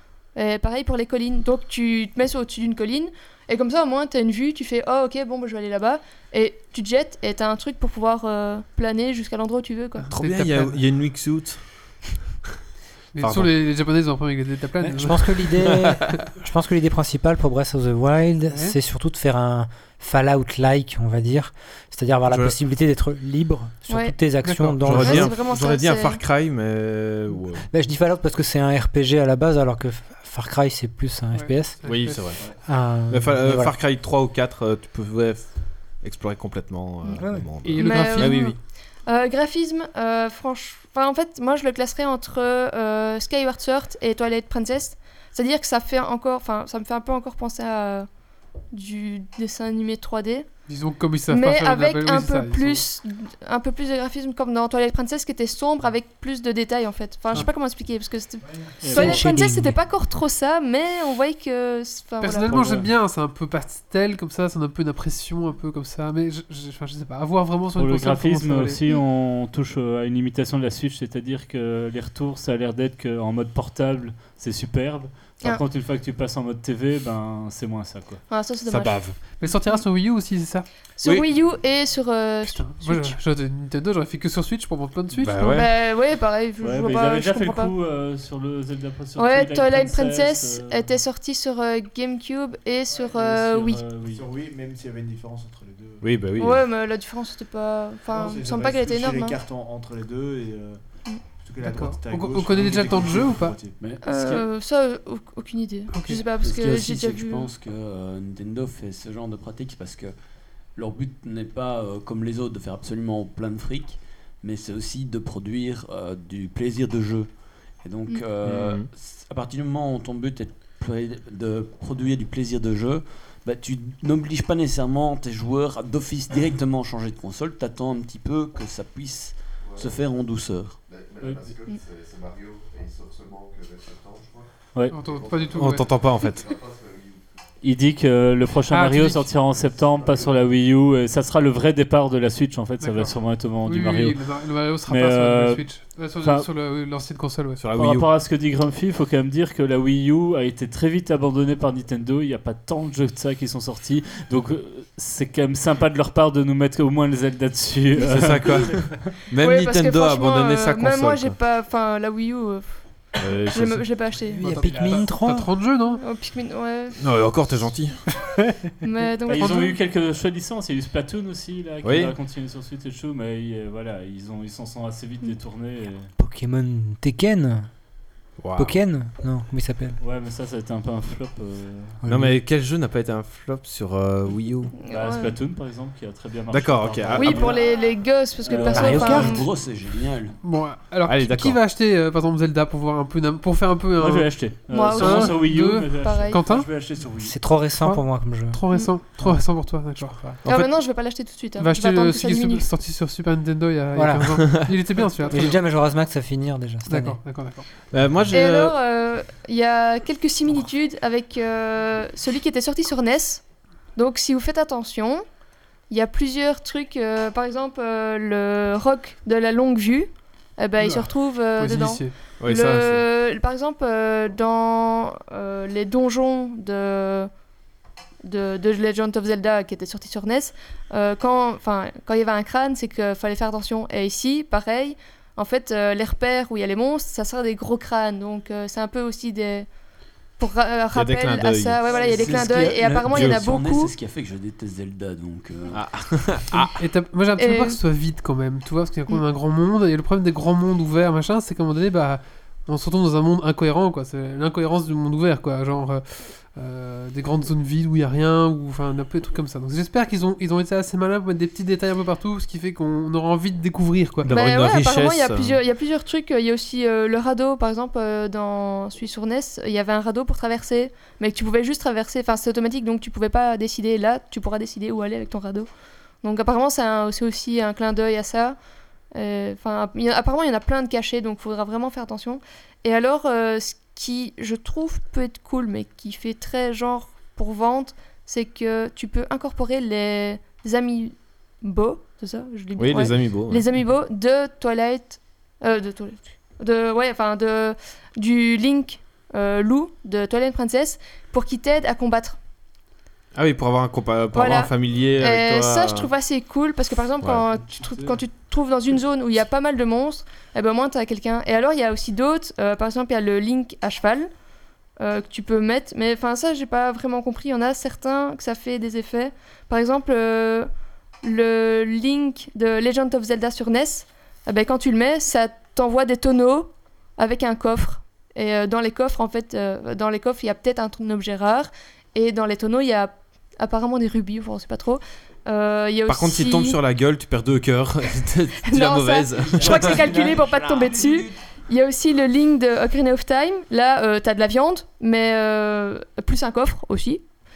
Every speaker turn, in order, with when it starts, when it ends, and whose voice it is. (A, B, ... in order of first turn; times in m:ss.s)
0:00.4-0:10.1 A
0:10.0-0:10.8 B
0:10.1-0:12.0 C
0:13.1-0:15.7 B
0:13.2-0:13.6 C
0:14.8-0:25.3 D
0:15.6-0:16.0 C
0:18.5-0:18.8 B
0:22.3-0:22.6 C
0:23.9-0:24.2 A
0:24.4-0:25.0 B
0:24.8-0:27.7 C
0:24.9-0:26.2 A
0:27.7-0:31.8 D
0:31.3-0:32.3 B
0:31.8-0:32.4 C
0:32.6-0:33.7 D
0:33.1-0:38.6 C
0:37.2-0:37.5 D
0:37.6-0:38.6 B
0:37.8-0:48.1 A
0:48.7-0:50.5 A
0:50.7-0:52.8 B
0:51.3-1:02.6 A
0:58.8-0:59.3 E
0:58.9-0:59.8 D
1:02.2-1:08.8 B
1:02.5-1:02.9 E
1:07.8-1:18.2 E
1:18.3-1:19.0 A
1:18.7-1:19.2 C
1:19.4-1:20.7 B
1:21.0-1:23.2 A
1:22.5-1:25.7 B
1:25.2-1:25.7 C
1:25.5-1:27.7 A
1:26.6-1:30.9 E
1:29.2-1:33.8 A
1:33.1-1:34.2 E
1:34.0-1:36.1 F
1:36.0-1:36.6 C
1:36.4-1:39.4 A
1:38.0-1:40.8 F
1:41.4-1:43.9 F
1:41.6-1:43.6 B
1:43.8-1:44.5 G
1:44.0-1:47.5 A
1:45.9-1:46.2 B
1:46.4-1:50.2 G
1:50.8-2:10.8 G
1:58.4-1:58.9 C
2:10.9-2:14.5 H
2:11.2-2:11.6 E
2:14.7-2:15.0 E
2:14.9-2:16.0 B
2:15.0-2:17.2 H
2:15.5-2:16.4 C
2:17.6-2:24.2 E
2:18.7-2:19.3 B
2:19.5-2:20.3 H
2:22.8-2:27.6 B
2:24.9-2:26.5 E
2:27.6-2:28.1 C
2:27.7-2:39.1 E
2:38.1-2:41.4 C
2:39.4-2:44.5 A
2:43.2-2:43.9 C
2:44.3-2:46.0 B
2:44.4-2:45.5 D
2:46.0-2:47.0 A
2:47.0-2:48.0 C
2:48.8-2:49.8 A
2:49.3-2:56.1 E
2:49.3-2:49.8 B
2:51.8-2:52.1 C
2:56.2-2:57.7 D
2:58.4-2:58.7 C
2:58.6-3:00.0 D
3:00.0-3:02.0 E
3:02.0-3:02.3 D
3:02.1-3:04.7 C
3:04.9-3:05.4 A
3:04.9-3:07.7 E
3:06.5-3:07.6 C
3:07.2-3:09.5 A
3:08.4-3:09.3 E
3:08.6-3:09.4 D
3:08.7-3:10.4 G
3:10.4-3:16.7 B
3:11.1-3:11.6 C
3:14.0-3:16.4 E
3:14.7-3:16.4 A
3:16.4-3:17.4 F
3:17.2-3:18.6 D
3:17.8-3:20.4 B
3:20.4-3:22.6 A
3:21.6-3:25.6 B
3:24.0-3:24.6 D
3:25.3-3:27.2 D
3:26.9-3:27.7 B
3:27.9-3:28.8 C
3:28.3-3:33.4 A
3:34.0-3:35.2 A
3:35.9-3:47.3 A
3:40.8-3:42.1 B
3:42.4-3:43.0 C
3:48.2-3:59.7 A
4:00.4-4:03.9 A
4:00.9-4:02.4 C
4:01.9-4:05.8 G
4:03.1-4:03.5 C
4:05.7-4:06.7 C
4:06.5-4:24.3 B
4:07.4-4:07.8 A
4:24.2-4:25.6 C
4:24.3-4:35.7 A
4:36.2-4:38.6 A
4:39.1-5:02.4 A
4:52.8-4:53.6 C
5:03.4-5:06.1 C
5:04.3-5:14.3 A
5:07.7-5:08.2 F
5:15.0-5:20.7 A
5:21.2-5:36.8 A
5:36.1-5:40.2 C
5:38.7-5:47.2 A